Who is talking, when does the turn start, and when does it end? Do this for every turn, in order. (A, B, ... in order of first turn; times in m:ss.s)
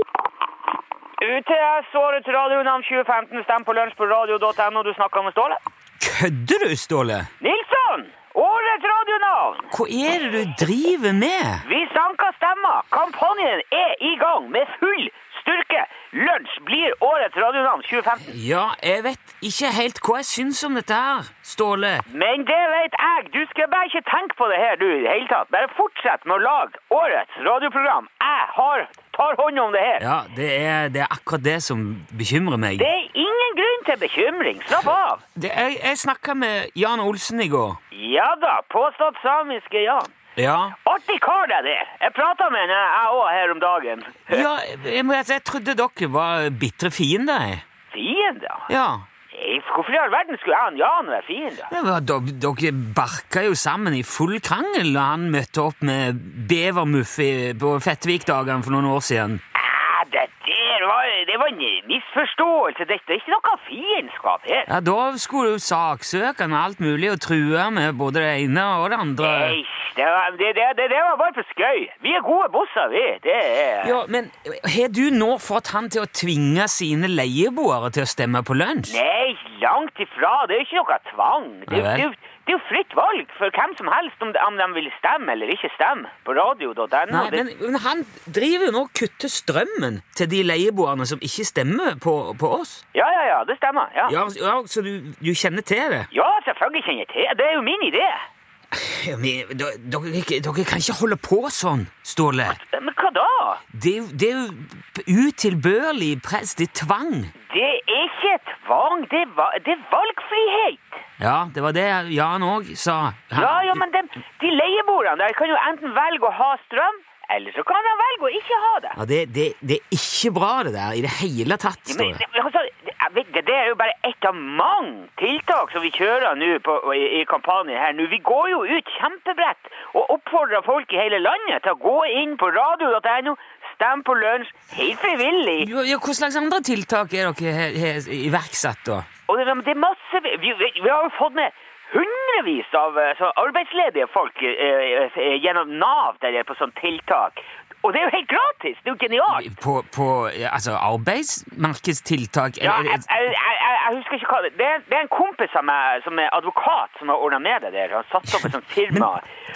0:01.2-0:05.6 A
0:06.0-0:07.3 B
0:07.4-0:09.7 A
0:09.7-0:11.6 B
0:11.6-0:18.4 A
0:18.2-0:22.0 B
0:22.1-0:30.0 A
0:30.0-0:32.9 B
0:32.8-0:35.2 A
0:34.9-0:37.8 B
0:37.9-0:40.1 A
0:40.4-0:40.8 B
0:40.8-0:44.5 A
0:44.3-0:47.6 B
0:47.9-0:48.7 A
0:48.7-0:49.0 B
0:49.3-0:51.7 A
0:51.7-0:59.4 B
0:59.5-1:04.7 A
1:04.7-1:09.6 B
1:09.2-1:14.0 A
1:13.8-1:19.0 B
1:18.9-1:27.4 A
1:21.7-1:22.1 B
1:27.1-1:32.8 B
1:32.9-1:34.2 A
1:34.1-1:36.1 B
1:36.1-1:38.3 A
1:38.7-1:42.6 B
1:42.5-1:43.6 A
1:43.7-1:47.3 B
1:47.4-1:51.0 A
1:51.2-1:53.8 B
1:53.4-1:59.0 A
1:59.0-2:02.2 B
2:01.9-2:15.7 A
2:15.6-2:19.1 B
2:19.3-2:29.5 A
2:29.3-2:33.1 B
2:32.6-2:39.3 A
2:38.3-2:39.1 B